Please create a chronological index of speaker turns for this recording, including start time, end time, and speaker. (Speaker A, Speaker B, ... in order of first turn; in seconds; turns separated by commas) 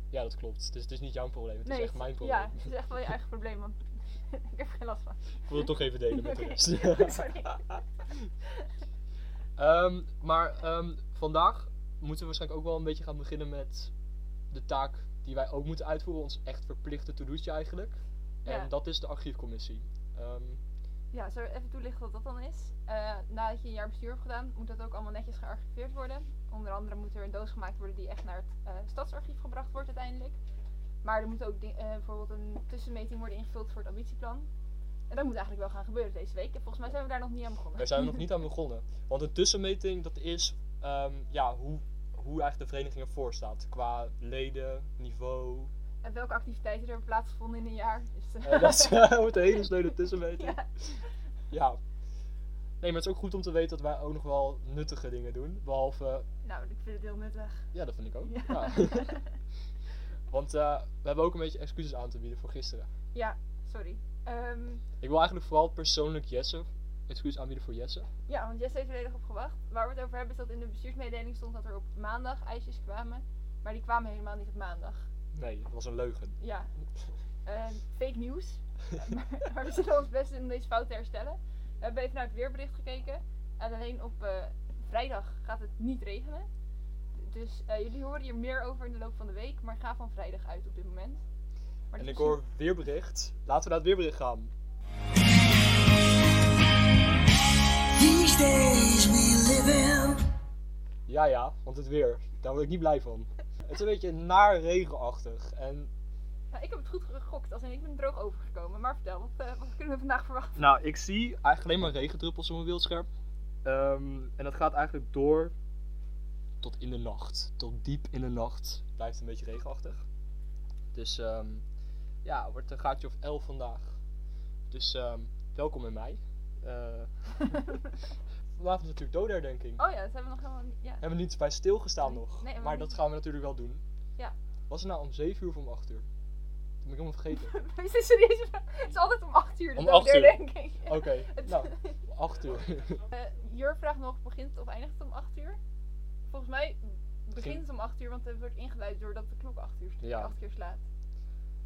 Speaker A: 0.1-2.7, Speaker B: 1.6-7.8, Speaker A: 5.5-7.3, Speaker A: 9.6-13.9, Speaker A: 14.5-20.6, Speaker B: 18.4-18.7, Speaker B: 21.1-30.4, Speaker B: 31.0-34.5, Speaker B: 35.1-38.1, Speaker A: 37.8-45.7, Speaker B: 46.0-49.5, Speaker A: 48.4-51.8, Speaker B: 50.3-50.6, Speaker A: 52.8-56.2, Speaker B: 56.4-57.7, Speaker A: 57.7-59.1, Speaker B: 58.2-59.3, Speaker A: 60.3-62.9, Speaker B: 63.1-64.8, Speaker A: 65.0-68.1, Speaker B: 68.3-75.0, Speaker A: 75.3-76.4, Speaker B: 76.4-76.7, Speaker B: 77.4-86.5, Speaker B: 87.2-91.2, Speaker B: 91.9-92.4, Speaker A: 92.0-94.5, Speaker C: 98.0-100.2, Speaker A: 101.1-105.9, Speaker B: 106.5-110.6, Speaker A: 110.5-113.1, Speaker A: 113.6-115.5, Speaker A: 116.6-120.0, Speaker A: 120.9-121.6, Speaker A: 122.2-124.0, Speaker A: 124.7-127.1, Speaker A: 128.6-129.8, Speaker B: 129.8-131.0, Speaker A: 131.0-133.8, Speaker B: 132.0-132.9, Speaker A: 134.7-136.1, Speaker A: 136.8-137.5, Speaker B: 137.4-142.0, Speaker A: 139.8-143.0, Speaker B: 143.1-145.6, Speaker B: 146.3-150.8, Speaker A: 150.0-150.3